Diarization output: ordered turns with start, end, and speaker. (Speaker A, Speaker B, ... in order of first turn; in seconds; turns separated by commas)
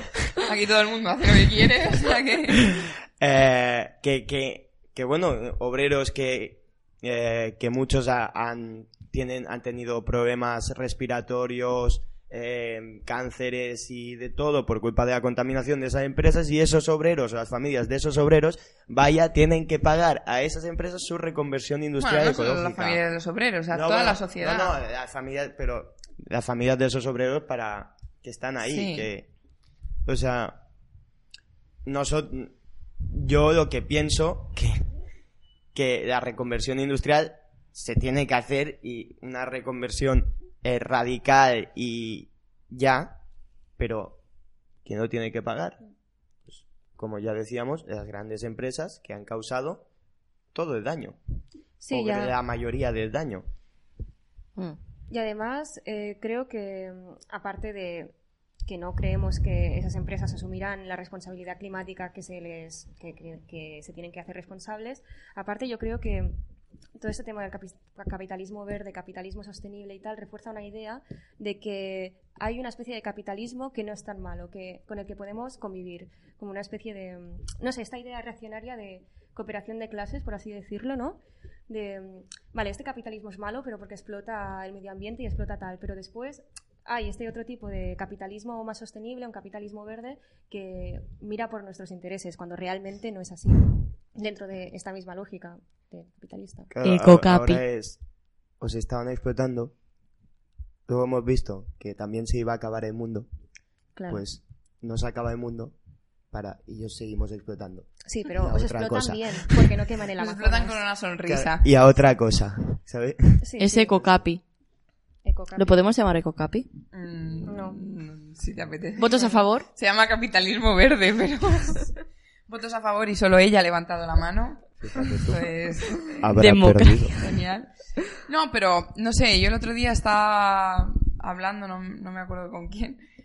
Speaker A: 0.4-2.7, Speaker B: 2.6-23.0, Speaker A: 22.0-24.8, Speaker B: 23.7-29.3, Speaker A: 28.6-29.1, Speaker B: 30.0-30.6, Speaker B: 31.8-34.9, Speaker B: 35.7-43.2, Speaker B: 43.8-44.2, Speaker B: 44.8-45.8, Speaker B: 46.5-49.9, Speaker B: 50.5-51.2, Speaker C: 51.8-52.4, Speaker B: 51.9-53.5, Speaker C: 55.1-66.4, Speaker C: 67.0-96.7, Speaker B: 96.7-98.0, Speaker D: 96.8-97.6, Speaker B: 98.6-99.7, Speaker B: 100.8-103.3, Speaker C: 104.0-104.2, Speaker B: 104.1-105.8, Speaker B: 106.3-109.7, Speaker C: 108.0-110.8, Speaker A: 110.2-111.6, Speaker B: 111.2-113.4, Speaker C: 113.4-114.2, Speaker D: 113.6-114.4, Speaker C: 115.2-115.8, Speaker D: 115.5-116.7, Speaker A: 116.9-122.0, Speaker C: 117.4-117.8, Speaker D: 119.0-119.7, Speaker A: 122.5-126.3, Speaker B: 124.8-125.4, Speaker B: 126.2-127.1, Speaker D: 126.3-127.3, Speaker A: 127.2-133.0